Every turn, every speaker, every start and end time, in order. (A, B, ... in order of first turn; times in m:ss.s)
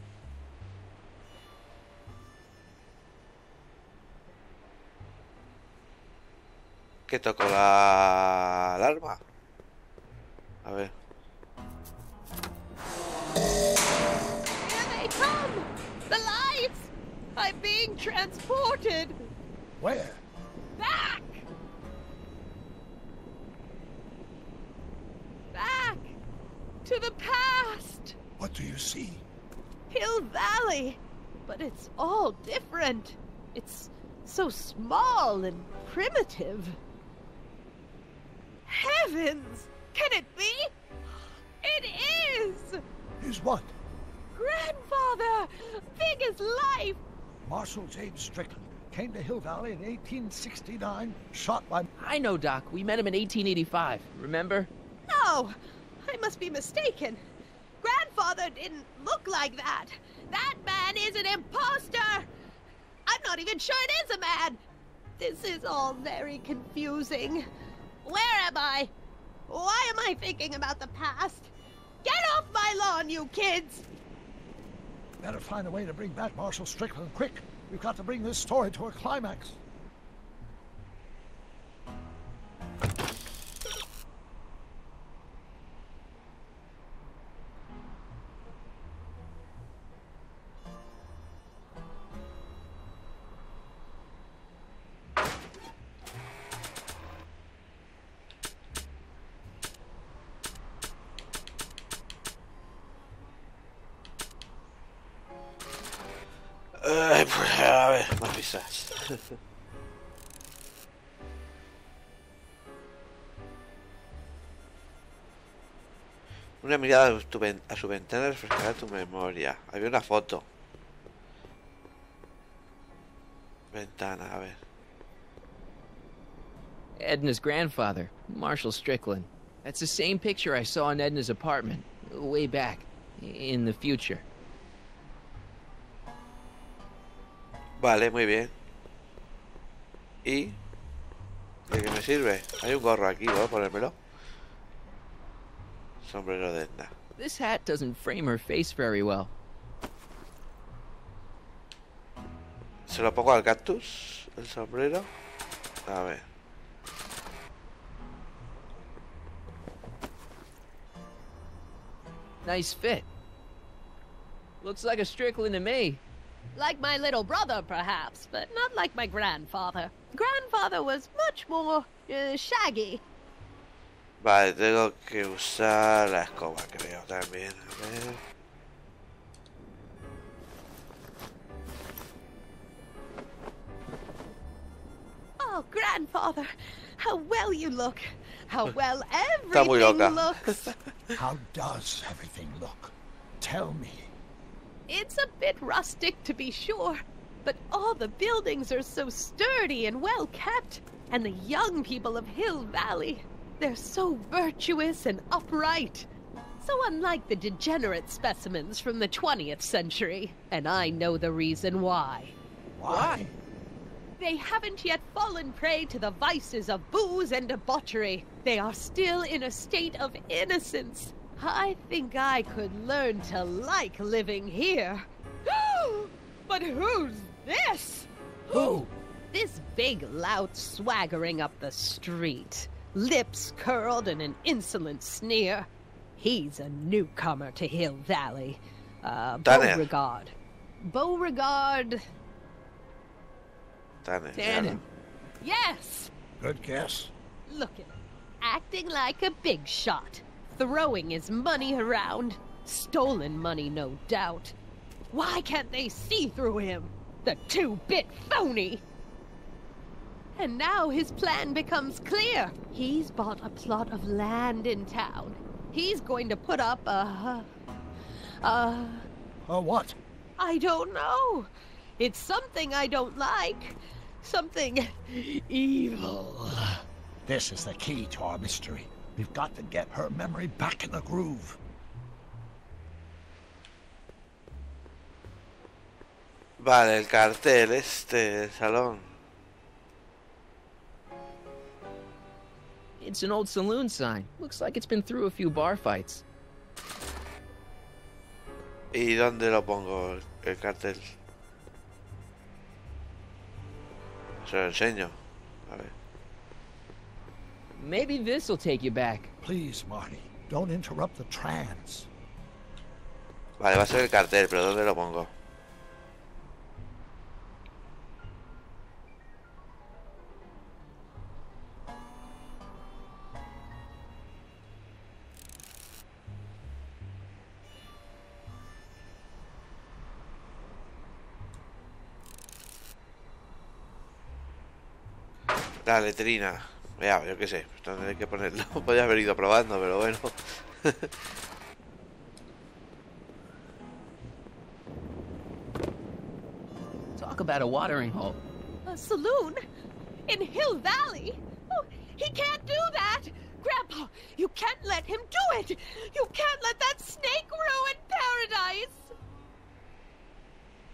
0:07.1-0:09.2 A
0:10.6-0:10.9 A
0:14.6-0:19.2 B
0:19.8-0:20.2 C
0:20.8-0:21.4 B
0:25.5-0:26.2 B
0:26.8-0:28.2 B
0:28.4-0:29.2 C
0:29.9-0:36.8 B
0:38.7-0:40.7 B
0:41.6-0:42.8 B
0:43.2-0:43.7 C
0:44.3-0:47.0 B
0:47.4-0:51.8 C
0:52.0-0:54.7 D
0:55.1-0:57.2 B
0:57.8-1:02.3 B
1:03.1-1:04.6 B
1:05.2-1:07.4 B
1:08.0-1:08.9 B
1:09.5-1:11.5 B
1:12.0-1:13.8 B
1:15.2-1:19.6 C
1:46.8-1:49.2 A
1:56.6-2:00.4 A
2:03.7-2:04.6 A
2:07.0-2:14.2 D
2:17.8-2:18.5 A
2:20.2-2:20.6 A
2:21.7-2:23.9 A
2:26.0-2:26.9 A
2:27.2-2:29.3 D
2:32.9-2:35.1 A
2:35.9-2:36.2 A
2:42.4-2:43.0 D
2:44.6-2:46.0 D
2:46.5-2:53.0 B
2:54.2-2:58.2 A
3:05.4-3:10.7 B
3:09.5-3:10.7 A
3:11.2-3:14.1 C
3:14.9-3:26.1 B
3:26.6-3:32.3 B
3:32.8-3:33.3 C
3:32.9-3:33.2 D
3:34.2-4:00.3 B
3:48.5-3:48.9 C
3:59.4-3:59.9 A
4:00.8-4:02.0 B
4:04.0-4:04.8 A
4:04.4-4:04.8 D
4:05.4-4:06.1 B
4:06.4-4:07.1 C
4:07.5-4:14.5 B
4:15.1-4:18.8 B
4:20.3-4:27.5 B
4:28.4-4:29.1 B
4:29.4-4:30.0 C
4:30.4-4:36.5 B
4:37.2-4:41.6 C
4:46.6-4:49.1 A
4:53.0-4:56.2 D
4:58.9-5:01.1 A
5:04.4-5:05.2 A
5:05.7-5:05.9 A
5:07.7-5:09.3 D
5:09.4-5:12.1 C
5:13.6-5:15.3 A
5:35.8-5:41.1 A
5:47.2-5:48.4 D
5:48.8-5:49.6 B
5:50.3-5:59.1 B